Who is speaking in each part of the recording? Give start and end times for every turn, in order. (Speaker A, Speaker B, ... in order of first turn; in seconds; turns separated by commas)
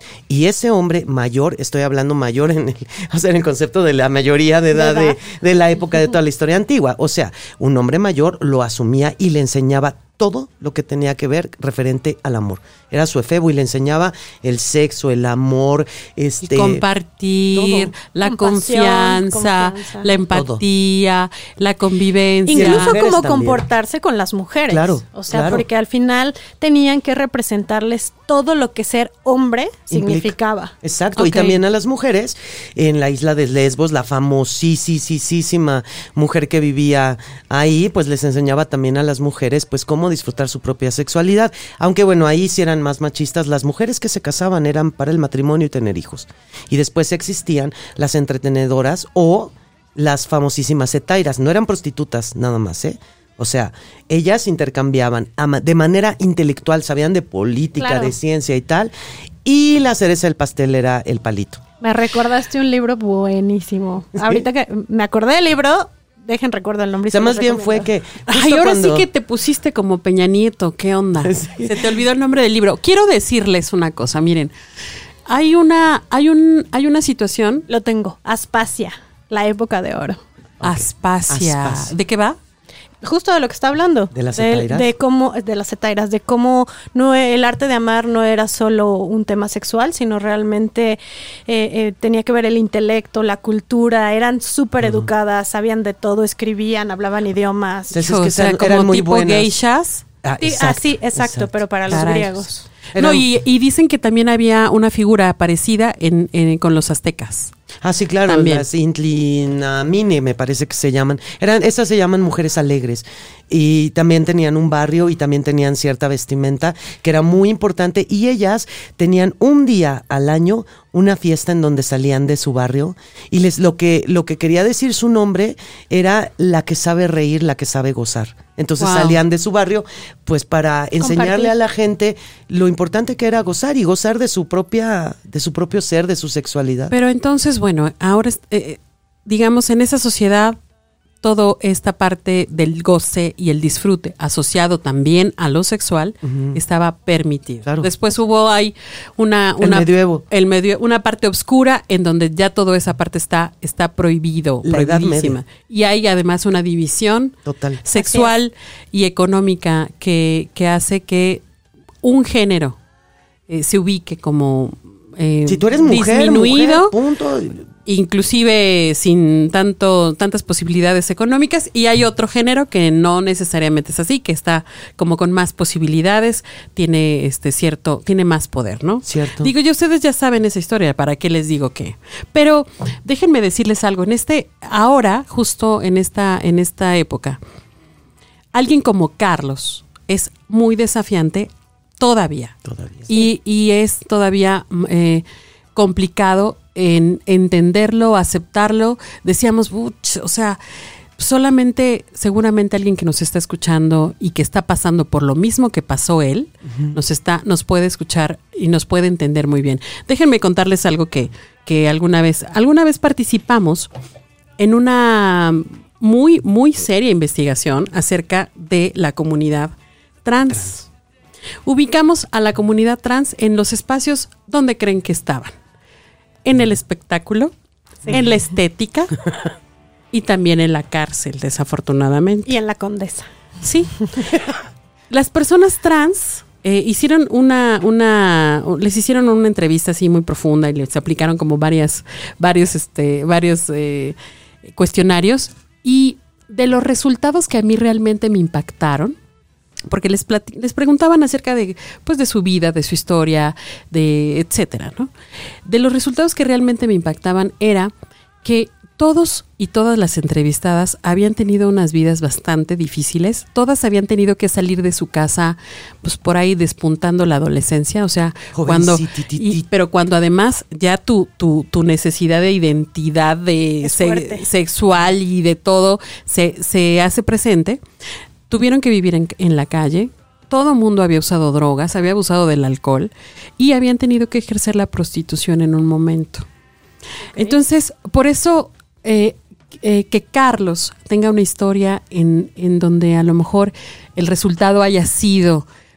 Speaker A: 0.3-16.8, Speaker B: 4.7-5.2, Speaker C: 16.4-22.9, Speaker B: 17.5-20.1, Speaker A: 20.3-20.6, Speaker B: 22.5-30.7, Speaker A: 22.6-23.6, Speaker A: 24.7-25.6, Speaker A: 29.9-58.9, Speaker C: 31.1-31.6, Speaker B: 57.8-58.1, Speaker A: 59.4-61.6, Speaker B: 61.8-67.9, Speaker A: 67.1-69.1, Speaker C: 68.3-74.5, Speaker A: 71.2-71.8, Speaker C: 75.3-77.7, Speaker B: 77.7-80.2, Speaker A: 80.6-81.9, Speaker C: 80.6-82.4, Speaker B: 83.0-97.9, Speaker A: 84.1-84.9, Speaker A: 94.8-95.1, Speaker A: 97.9-99.5, Speaker C: 97.9-100.0, Speaker A: 100.2-101.5, Speaker B: 100.4-102.7, Speaker C: 101.9-102.4, Speaker C: 102.9-107.5, Speaker A: 102.9-103.2, Speaker A: 107.8-136.9, Speaker C: 108.2-108.7, Speaker C: 128.8-129.2, Speaker B: 131.0-131.5, Speaker C: 136.9-140.6, Speaker C: 141.2-161.4, Speaker A: 146.2-146.6, Speaker A: 149.6-150.2, Speaker A: 154.6-155.4, Speaker A: 157.4-157.8, Speaker B: 157.9-158.3, Speaker C: 162.0-162.8, Speaker C: 163.5-166.9, Speaker A: 165.4-167.7, Speaker C: 167.8-187.4, Speaker A: 179.0-179.5, Speaker C: 188.5-200.6, Speaker A: 192.6-193.1, Speaker C: 201.2-213.9, Speaker C: 214.6-219.7, Speaker C: 220.2-220.9, Speaker C: 221.7-225.5, Speaker C: 226.4-227.5, Speaker C: 228.1-229.2, Speaker C: 230.1-232.5, Speaker B: 232.4-233.3, Speaker C: 233.6-233.9, Speaker C: 235.1-249.2, Speaker C: 249.9-255.1, Speaker C: 255.6-257.9, Speaker C: 258.4-277.8, Speaker A: 268.5-269.6, Speaker B: 273.8-274.4, Speaker C: 278.5-286.5, Speaker B: 287.3-287.6, Speaker C: 287.4-295.6